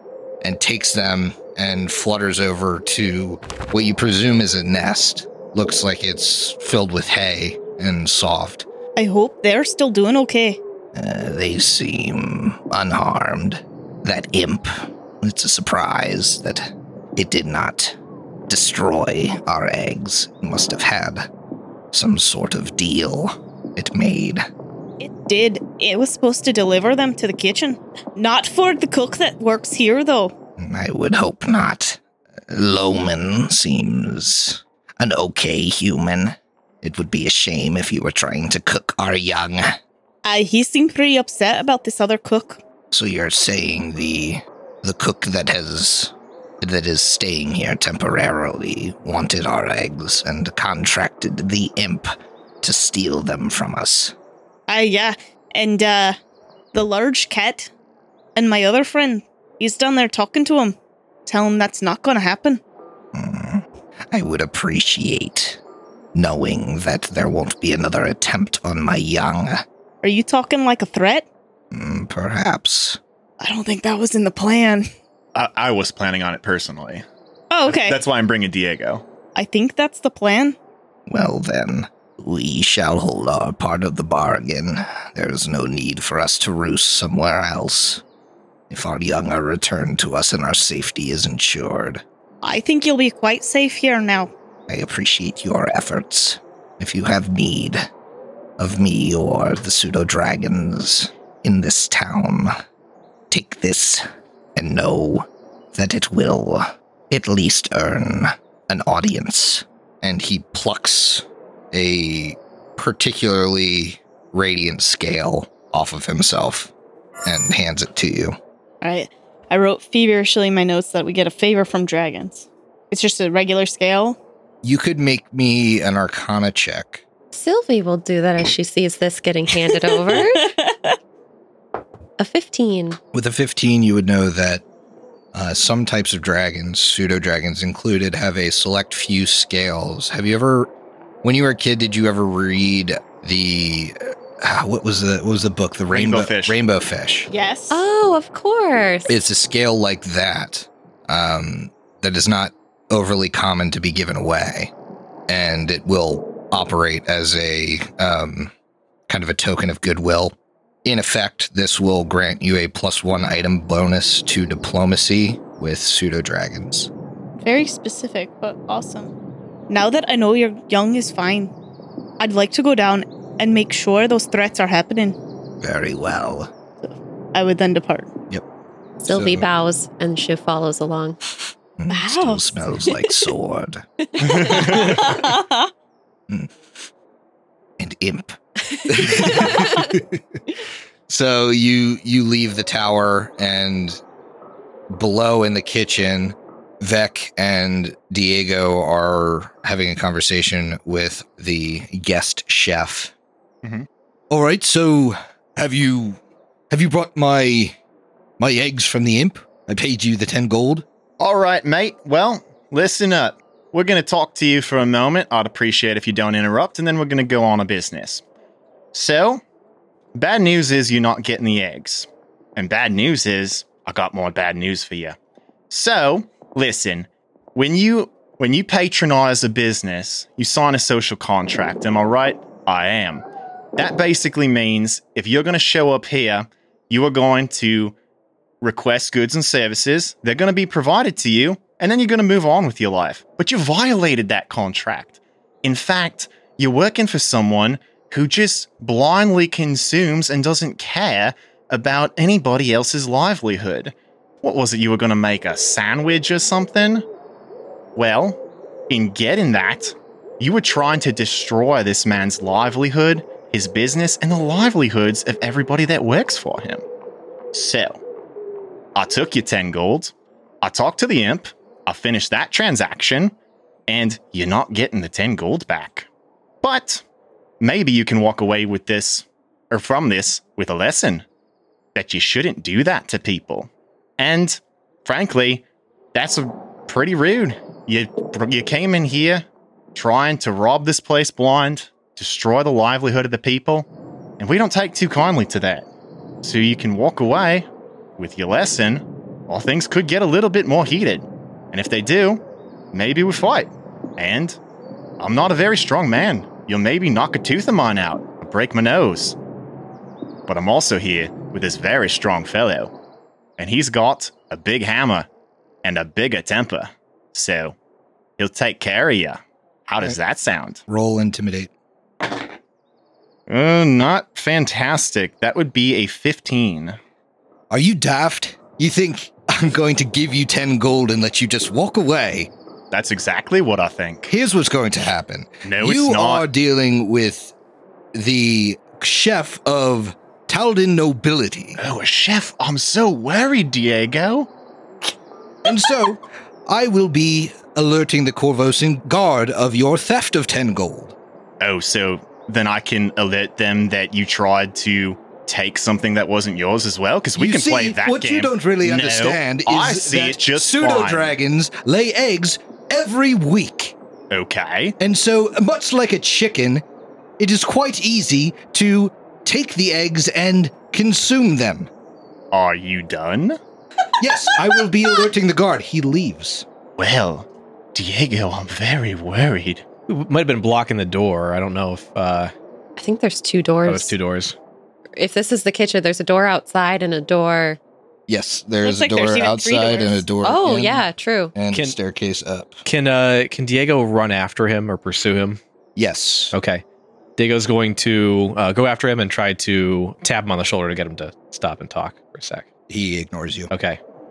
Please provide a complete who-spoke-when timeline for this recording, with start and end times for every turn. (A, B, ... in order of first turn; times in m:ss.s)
0:00.4-0:08.7 A
0:09.0-0:10.6 B
0:10.9-0:18.0 A
0:18.5-0:21.3 A
0:21.9-0:24.5 A
0:25.0-0:30.3 B
0:30.6-0:39.8 A
0:40.2-0:42.6 B
0:42.9-0:52.1 A
0:52.6-0:54.1 A
0:54.7-0:56.2 B
0:56.7-0:57.7 B
0:58.4-1:02.6 B
1:03.1-1:05.6 A
1:06.1-1:09.6 A
1:10.0-1:11.3 B
1:11.7-1:13.0 A
1:13.4-1:14.9 B
1:15.3-1:17.0 C
1:17.5-1:18.0 B
1:17.6-1:19.0 C
1:19.3-1:20.6 B
1:21.1-1:28.0 A
1:28.7-1:32.0 A
1:32.4-1:34.3 B
1:34.7-1:37.9 A
1:38.6-1:42.5 A
1:43.3-1:56.7 A
1:57.2-1:58.4 A
1:58.8-2:04.2 B
2:04.6-2:07.0 A
2:07.3-2:10.5 D
2:10.1-2:11.0 B
2:12.2-2:13.0 D
2:13.1-2:14.6 A
2:15.3-2:20.7 A
2:21.2-2:27.3 A
2:25.9-2:26.6 C
2:27.3-2:27.8 B
2:27.7-2:29.1 D
2:29.1-2:34.7 A
2:35.3-2:38.5 A
2:39.1-2:46.9 A
2:47.4-2:49.1 B
2:49.7-2:51.5 B
2:52.2-2:55.2 B
2:55.6-2:56.5 A
2:56.8-2:58.1 B
2:59.0-3:01.2 D
2:59.0-2:59.4 A
3:01.8-3:03.8 A
3:01.9-3:02.6 B
3:04.2-3:05.1 C
3:04.4-3:04.9 A
3:04.6-3:05.7 B
3:06.3-3:06.5 A
3:07.8-3:10.2 A
3:11.1-3:14.0 A
3:14.9-3:23.1 A
3:24.3-3:27.8 A
3:28.4-3:30.8 A
3:31.2-3:38.2 C
3:38.9-3:39.4 C
3:40.1-3:45.2 C
3:45.7-3:53.2 C
3:53.8-3:57.9 C
3:58.6-4:17.0 C
4:18.0-4:26.8 C
4:27.5-4:28.0 C
4:28.9-4:33.3 C
4:33.9-4:36.1 C
4:36.6-4:37.0 C
4:37.6-4:41.2 C
4:41.9-4:53.9 C
4:54.4-4:55.9 C
4:56.4-5:04.6 C
5:05.2-5:09.4 C
5:10.5-5:12.9 C
5:13.6-5:15.3 C
5:15.8-5:17.8 C
5:18.4-5:20.8 C
5:20.9-5:21.7 A
5:23.5-5:27.0 C
5:27.7-5:32.5 A
5:32.9-5:34.3 C
5:34.3-5:37.5 A
5:35.6-5:36.4 C
5:38.1-5:41.8 A
5:41.8-5:44.5 C
5:45.6-5:51.1 A
5:51.6-6:01.3 C
5:57.4-6:04.0 A
6:04.3-6:05.0 C
6:05.0-6:06.8 A
6:07.4-6:11.9 A
6:12.5-6:13.6 C
6:14.2-6:16.6 A
6:17.0-6:19.8 C
6:20.1-6:22.5 E
6:23.0-6:24.2 D
6:23.8-6:24.6 E
6:25.2-6:27.8 D
6:28.3-6:32.8 A
6:28.8-6:30.2 B
6:30.4-6:31.5 D
6:32.8-6:35.6 E
6:36.0-6:36.5 A
6:36.5-6:36.8 E
6:37.4-6:42.7 E
6:42.9-6:43.7 A
6:43.7-6:44.0 E